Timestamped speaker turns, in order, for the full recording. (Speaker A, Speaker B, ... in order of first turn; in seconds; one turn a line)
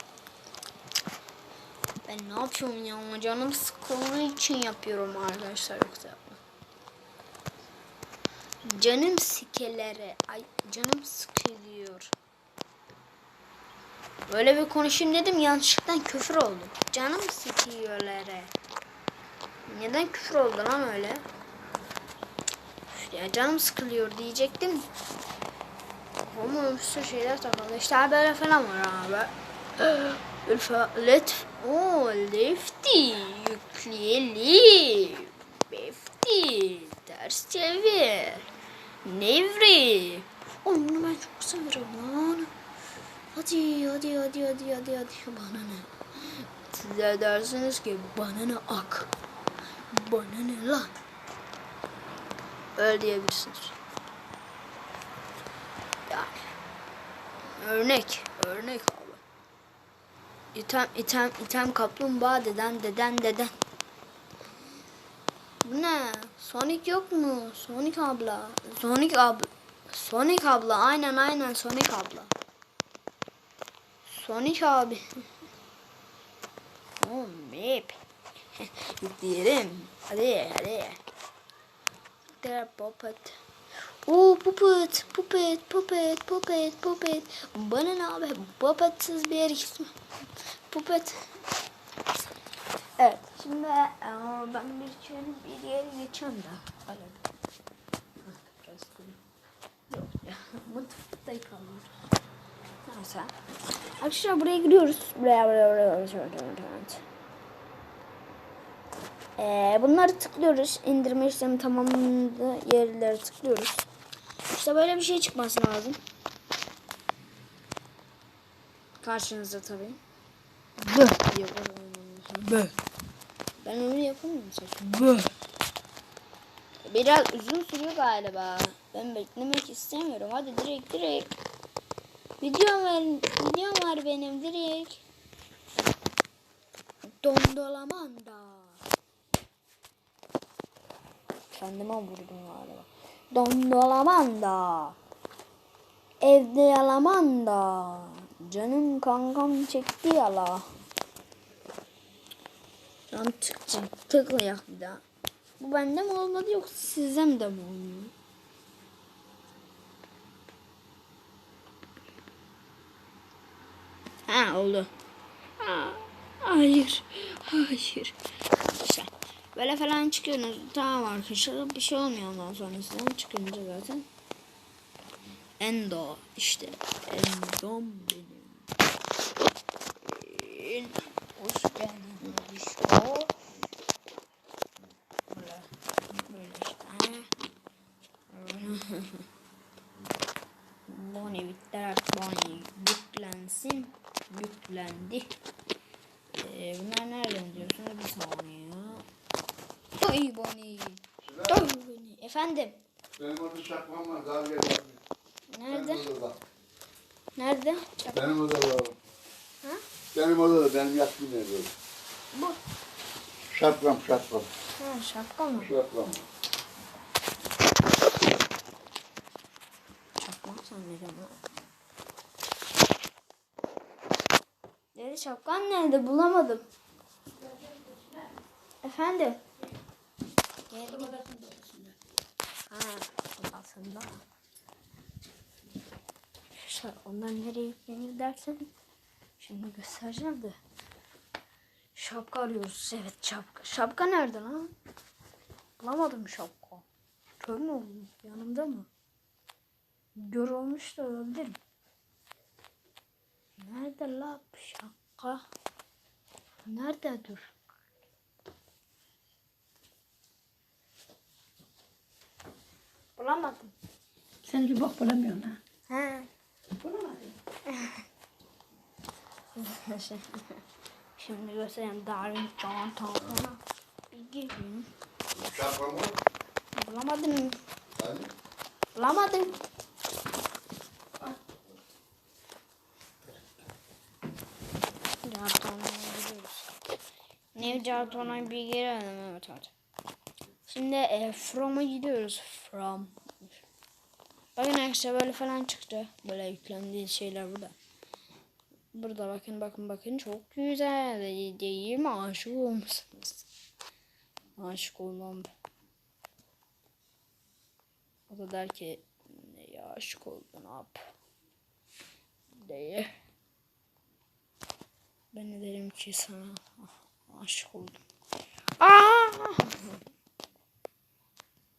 Speaker A: 2.0-6.4
Speaker A: 8.6-12.1
Speaker A: 14.3-18.5
Speaker A: 19.7-21.2
Speaker A: 22.9-24.9
Speaker A: 26.2-38.5
Speaker A: 39.0-42.5
Speaker A: 43.3-49.1
Speaker A: 49.9-51.0
Speaker A: 52.7-53.8
Speaker A: 56.0-56.5
Speaker A: 57.5-59.2
Speaker A: 60.5-63.5
Speaker A: 65.6-72.3
Speaker A: 74.0-75.2
Speaker A: 77.0-78.0
Speaker A: 78.5-81.0
Speaker A: 82.4-83.4
Speaker A: 84.0-90.0
Speaker A: 90.7-91.3
Speaker A: 93.0-97.2
Speaker A: 98.2-99.2
Speaker A: 99.9-101.9
Speaker A: 102.8-103.3
Speaker A: 104.0-107.0
Speaker A: 109.4-113.8
Speaker A: 114.5-116.0
Speaker A: 119.0-120.0
Speaker A: 120.8-122.7
Speaker A: 123.6-125.3
Speaker A: 126.8-131.3
Speaker A: 132.4-135.0
Speaker A: 137.1-138.8
Speaker A: 141.5-145.0
Speaker A: 146.2-150.7
Speaker A: 153.1-155.0
Speaker A: 155.6-158.1
Speaker A: 164.2-164.9
Speaker A: 165.6-174.1
Speaker A: 175.6-178.7
Speaker A: 180.0-183.3
Speaker A: 185.3-187.3
Speaker A: 188.3-189.3
Speaker A: 190.9-195.3
Speaker A: 196.3-199.0
Speaker A: 199.9-202.8
Speaker B: 201.2-201.7
Speaker B: 203.2-205.0
Speaker A: 205.5-206.1
Speaker B: 205.7-206.4
Speaker A: 207.3-208.3
Speaker B: 208.1-208.9
Speaker B: 210.1-211.7
Speaker A: 212.3-212.6
Speaker B: 213.5-214.5
Speaker A: 214.8-215.7
Speaker B: 215.6-216.2
Speaker A: 220.2-221.4
Speaker A: 224.9-226.7
Speaker C: 227.7-228.0
Speaker A: 228.8-229.4
Speaker A: 230.7-231.2
Speaker C: 231.1-231.9
Speaker A: 232.7-234.2
Speaker A: 236.5-238.7
Speaker A: 239.4-240.6
Speaker A: 241.9-244.7
Speaker A: 245.8-246.8
Speaker A: 247.4-248.9
Speaker A: 250.2-251.6
Speaker A: 253.6-255.4
Speaker A: 256.6-257.5
Speaker A: 263.2-263.7
Speaker C: 264.4-265.6
Speaker A: 265.9-266.3
Speaker C: 266.8-267.3
Speaker A: 267.6-268.0
Speaker A: 269.5-270.6
Speaker A: 271.2-273.6
Speaker A: 274.1-274.9
Speaker B: 275.3-276.1
Speaker A: 276.8-277.6
Speaker B: 277.9-278.3
Speaker A: 278.9-279.6
Speaker A: 285.2-286.7
Speaker A: 287.5-289.7
Speaker A: 290.6-293.1
Speaker A: 294.5-297.7
Speaker A: 298.9-303.4
Speaker A: 304.6-305.5
Speaker A: 308.3-311.0
Speaker A: 312.6-313.1
Speaker A: 315.3-318.0
Speaker A: 318.8-320.0